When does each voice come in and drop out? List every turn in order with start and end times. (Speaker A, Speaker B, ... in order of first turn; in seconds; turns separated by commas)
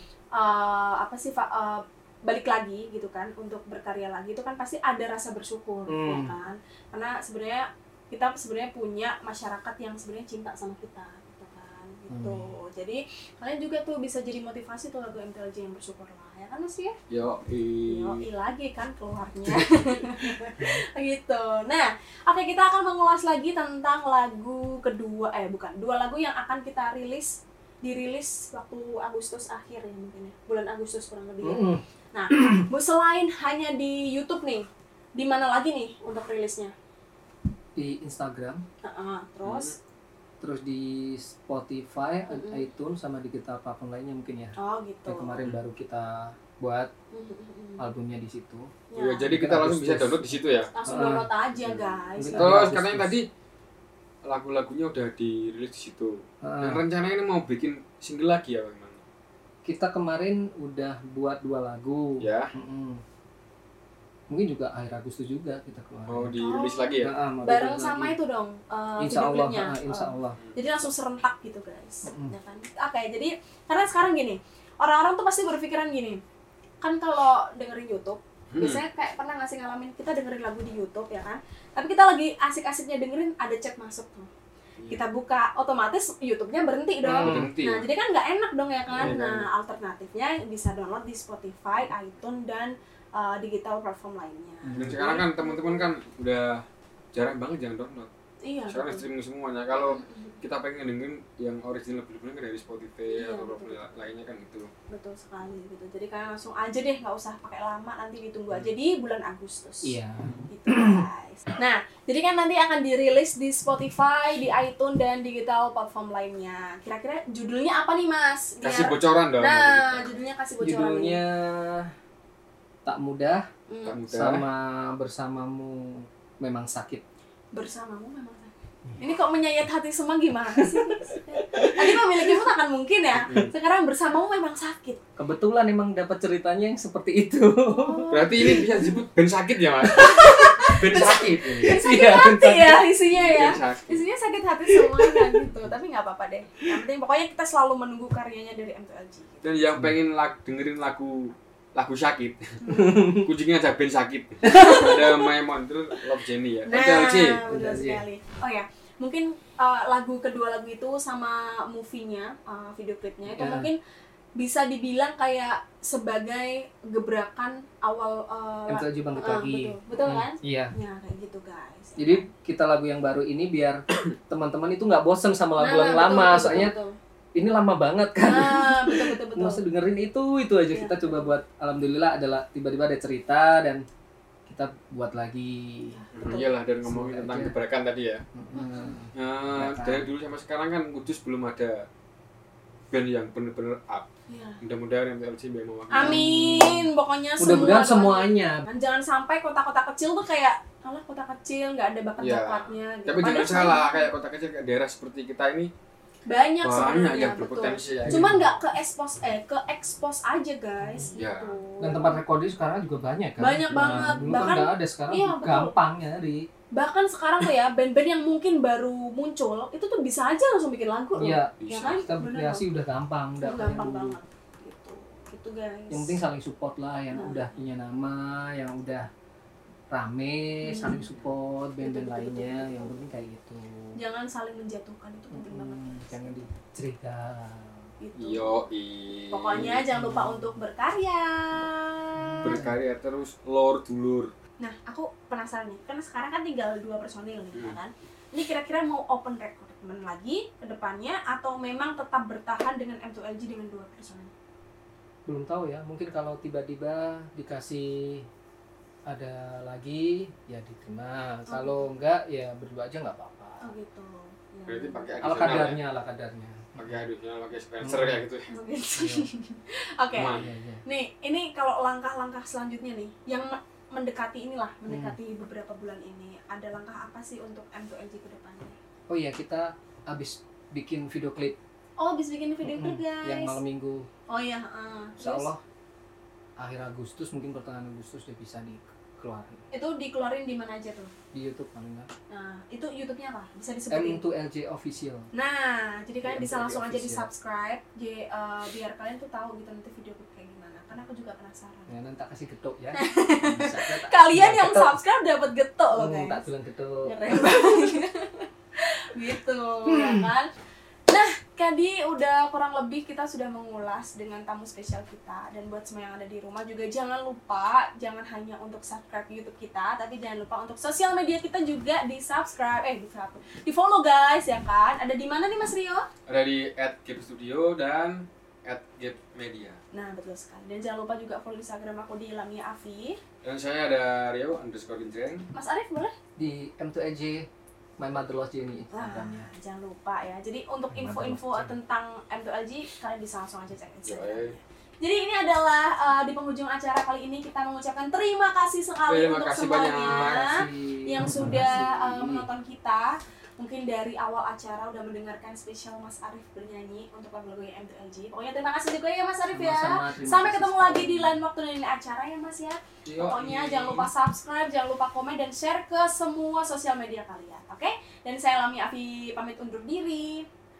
Speaker A: 0.3-17.0, Speaker B: 5.9-6.3, Speaker B: 12.1-12.5, Speaker C: 17.1-18.2, Speaker A: 17.9-36.7, Speaker C: 19.4-20.0, Speaker B: 31.4-32.7, Speaker B: 37.8-38.6, Speaker A: 38.8-39.8, Speaker C: 39.4-39.8, Speaker B: 40.4-44.5, Speaker A: 42.3-42.7, Speaker A: 44.6-45.4, Speaker B: 45.1-46.9, Speaker A: 47.1-47.9, Speaker B: 47.8-48.7, Speaker A: 48.9-49.3, Speaker C: 49.0-50.7, Speaker B: 49.3-51.3, Speaker A: 50.7-52.6, Speaker C: 51.6-53.3, Speaker B: 52.2-53.1, Speaker C: 54.2-59.0, Speaker B: 56.5-56.8, Speaker B: 59.7-63.0, Speaker C: 62.2-62.5, Speaker B: 64.3-66.4, Speaker C: 66.1-67.1, Speaker A: 66.4-76.2, Speaker B: 67.0-68.2, Speaker B: 69.0-70.4, Speaker B: 72.0-72.3, Speaker A: 76.8-84.3, Speaker C: 78.5-78.8, Speaker C: 84.8-85.0, Speaker A: 84.9-95.9, Speaker B: 87.0-87.5, Speaker C: 87.1-87.9, Speaker C: 88.9-89.5, Speaker B: 94.7-95.0, Speaker C: 94.8-98.1, Speaker A: 98.4-99.0, Speaker C: 98.7-104.7, Speaker A: 99.7-100.4, Speaker A: 103.1-103.9, Speaker A: 104.9-110.0, Speaker B: 109.8-111.0, Speaker A: 110.5-121.2, Speaker C: 118.6-120.1, Speaker B: 120.6-121.9, Speaker B: 122.8-123.5, Speaker A: 123.7-124.0, Speaker C: 123.8-124.5, Speaker B: 124.1-127.0, Speaker A: 127.5-135.0, Speaker B: 130.6-132.2, Speaker C: 133.1-133.5, Speaker B: 135.2-138.1, Speaker A: 137.7-139.0, Speaker C: 138.1-141.8, Speaker A: 139.8-149.4, Speaker B: 140.9-142.8, Speaker C: 143.1-144.1, Speaker B: 144.9-145.4, Speaker C: 149.4-152.6, Speaker A: 152.6-153.0, Speaker B: 152.7-153.3, Speaker C: 153.2-157.4, Speaker A: 154.4-155.3, Speaker B: 154.5-154.9, Speaker A: 156.7-163.8, Speaker B: 157.5-158.0, Speaker B: 163.3-163.7, Speaker A: 164.4-172.3, Speaker B: 168.7-170.7, Speaker B: 172.0-176.8, Speaker A: 175.6-176.9, Speaker B: 177.4-183.8, Speaker A: 178.2-179.6, Speaker A: 180.7-181.3, Speaker B: 184.5-185.9, Speaker A: 185.9-186.5, Speaker C: 186.1-188.2, Speaker B: 186.8-187.6, Speaker B: 188.3-190.1, Speaker A: 188.6-189.0, Speaker C: 189.2-191.9, Speaker C: 192.9-194.1, Speaker A: 194.3-194.6, Speaker C: 194.6-196.3, Speaker A: 195.9-204.1, Speaker B: 196.0-196.9, Speaker B: 197.4-198.6, Speaker C: 202.2-205.7, Speaker A: 206.3-212.2, Speaker C: 206.6-208.6, Speaker B: 208.1-208.4, Speaker C: 211.1-211.6, Speaker B: 211.8-216.4, Speaker A: 213.4-215.7, Speaker A: 216.8-222.7, Speaker B: 221.2-224.2, Speaker C: 221.6-222.1, Speaker A: 223.4-226.2, Speaker B: 225.9-229.1, Speaker A: 227.1-227.4, Speaker B: 229.9-233.6, Speaker A: 230.6-231.1, Speaker A: 231.8-233.0, Speaker A: 234.0-236.4, Speaker B: 235.3-237.8, Speaker A: 238.0-238.6, Speaker C: 238.2-239.9, Speaker A: 239.3-242.6, Speaker B: 239.9-240.5, Speaker B: 242.2-242.7, Speaker C: 242.4-244.3, Speaker A: 244.6-254.3, Speaker B: 255.3-258.3, Speaker B: 259.1-263.7, Speaker A: 261.5-261.9, Speaker A: 263.6-265.6, Speaker C: 264.7-265.8, Speaker B: 265.2-266.9, Speaker C: 266.8-268.5, Speaker B: 267.8-268.2, Speaker A: 268.5-278.8, Speaker B: 269.0-269.3, Speaker C: 270.1-270.5, Speaker B: 270.3-270.8, Speaker B: 274.9-275.2, Speaker B: 279.1-281.6, Speaker A: 282.0-283.6, Speaker B: 282.6-284.1, Speaker A: 284.3-285.5, Speaker B: 285.2-285.6, Speaker B: 286.6-289.6, Speaker A: 289.7-291.1, Speaker B: 291.3-292.1, Speaker A: 292.3-294.2, Speaker B: 293.9-295.2, Speaker A: 295.3-301.9, Speaker B: 296.2-297.3, Speaker B: 301.9-305.0, Speaker A: 302.9-306.4, Speaker B: 305.9-307.2, Speaker A: 307.1-310.5, Speaker B: 310.0-310.2, Speaker A: 311.1-326.1, Speaker C: 326.3-329.8, Speaker A: 329.9-333.2, Speaker C: 333.4-335.4, Speaker A: 335.5-336.1, Speaker B: 336.4-337.4, Speaker B: 338.0-339.5, Speaker A: 338.9-370.5, Speaker B: 340.9-341.7, Speaker C: 344.1-344.5, Speaker C: 349.1-350.6, Speaker B: 350.3-352.5, Speaker B: 359.5-361.4, Speaker C: 363.1-364.1